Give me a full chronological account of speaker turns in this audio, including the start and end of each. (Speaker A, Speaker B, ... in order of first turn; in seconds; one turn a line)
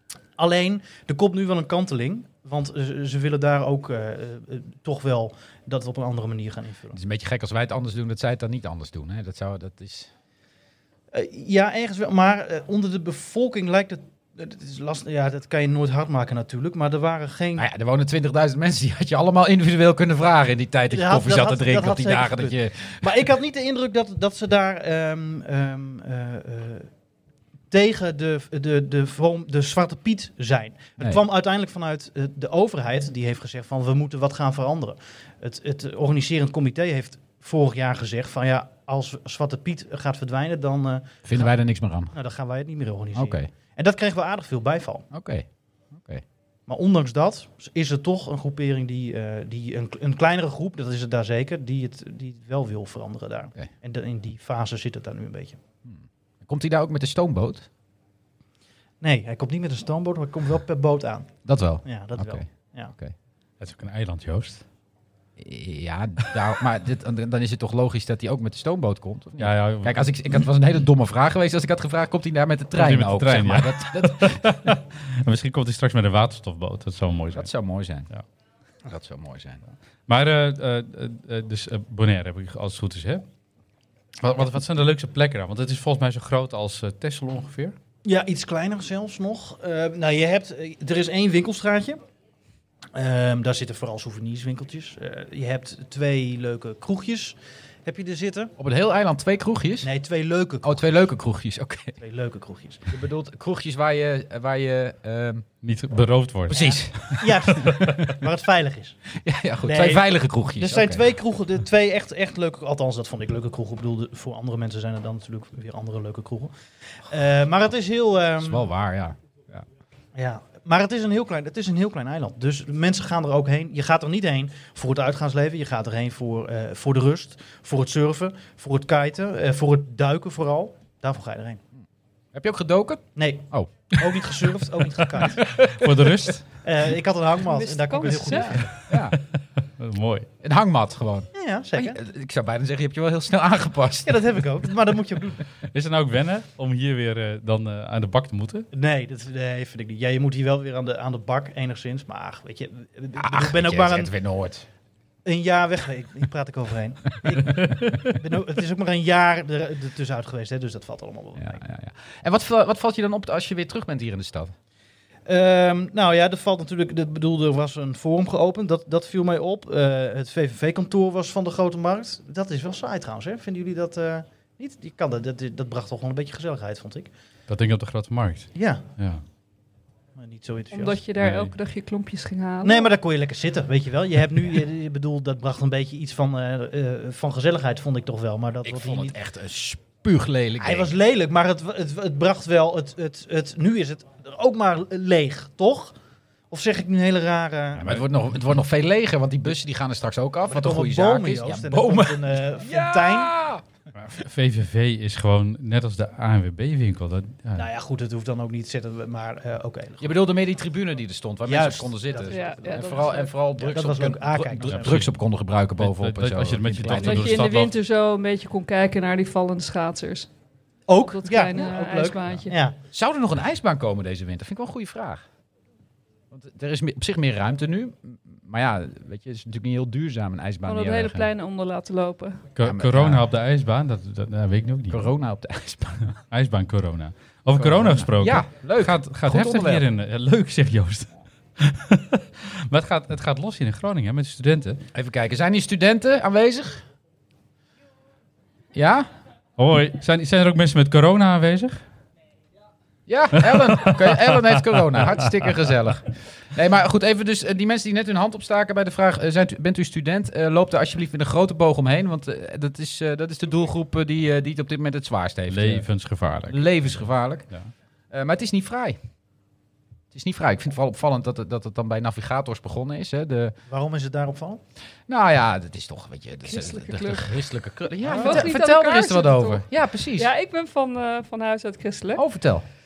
Speaker A: 0.4-7.0
Speaker B: 6.9-10.1
Speaker A: 11.1-17.6
Speaker B: 17.6-23.3
Speaker A: 20.9-26.9
Speaker A: 27.7-41.5
Speaker B: 41.3-42.1
Speaker A: 42.1-45.1
Speaker B: 43.1-43.5
Speaker B: 45.1-46.2
Speaker A: 46.7-55.6
Speaker B: 55.9-57.7
Speaker A: 59.0-61.3
Speaker B: 61.5-63.1
Speaker A: 61.9-62.9
Speaker C: 63.6-64.6
Speaker B: 65.4-74.5
Speaker C: 69.4-70.1
Speaker C: 72.8-77.5
Speaker B: 77.3-78.1
Speaker B: 78.9-79.6
Speaker C: 80.1-83.2
Speaker C: 84.2-87.8
Speaker A: 88.0-92.0
Speaker A: 93.0-98.5
Speaker B: 98.6-99.9
Speaker A: 99.8-100.8
Speaker B: 100.6-102.0
Speaker A: 102.0-102.8
Speaker B: 102.9-105.5
Speaker C: 105.6-107.8
Speaker B: 106.5-108.1
Speaker A: 106.5-109.0
Speaker B: 109.2-111.0
Speaker A: 109.6-116.5
Speaker A: 117.1-118.7
Speaker B: 118.4-119.7
Speaker A: 120.2-131.6
Speaker B: 132.3-133.9
Speaker A: 133.2-135.4
Speaker C: 135.2-136.5
Speaker B: 135.4-136.3
Speaker A: 136.6-138.7
Speaker D: 137.4-138.6
Speaker B: 138.3-139.2
Speaker C: 138.9-139.2
Speaker C: 139.8-140.3
Speaker B: 140.4-144.4
Speaker A: 141.3-142.0
Speaker A: 144.0-145.4
Speaker C: 145.7-148.7
Speaker A: 148.7-154.1
Speaker B: 153.2-154.7
Speaker A: 155.2-161.6
Speaker C: 157.5-158.0
Speaker B: 161.4-164.5
Speaker A: 165.3-177.1
Speaker C: 177.5-179.2
Speaker A: 178.6-178.8
Speaker A: 180.2-181.0
Speaker D: 180.7-182.9
Speaker C: 181.2-181.5
Speaker A: 182.6-189.2
Speaker B: 188.6-190.9
Speaker A: 190.6-195.9
Speaker A: 196.5-198.0
Speaker B: 197.8-203.6
Speaker A: 200.5-203.3
Speaker C: 204.1-207.7
Speaker A: 207.6-210.1
Speaker B: 210.0-217.4
Speaker A: 211.5-212.5
Speaker D: 212.3-213.3
Speaker A: 213.6-215.0
Speaker C: 214.7-215.1
Speaker C: 215.8-217.7
Speaker D: 216.9-220.3
Speaker A: 220.9-222.8
Speaker D: 221.1-222.6
Speaker B: 222.9-225.2
Speaker B: 226.3-231.3
Speaker D: 230.7-232.4
Speaker C: 232.6-235.1
Speaker B: 232.6-233.2
Speaker B: 234.9-236.2
Speaker C: 236.3-244.8
Speaker B: 237.6-239.9
Speaker B: 244.9-246.8
Speaker B: 248.7-249.1
Speaker C: 249.6-251.8
Speaker B: 253.1-265.9
Speaker C: 253.4-255.1
Speaker C: 265.5-266.9
Speaker B: 266.5-267.5
Speaker B: 268.1-269.0
Speaker B: 270.1-273.6
Speaker A: 273.7-274.6
Speaker B: 275.1-280.3
Speaker D: 276.4-277.4
Speaker A: 278.1-278.4
Speaker D: 278.2-282.2
Speaker B: 282.1-282.6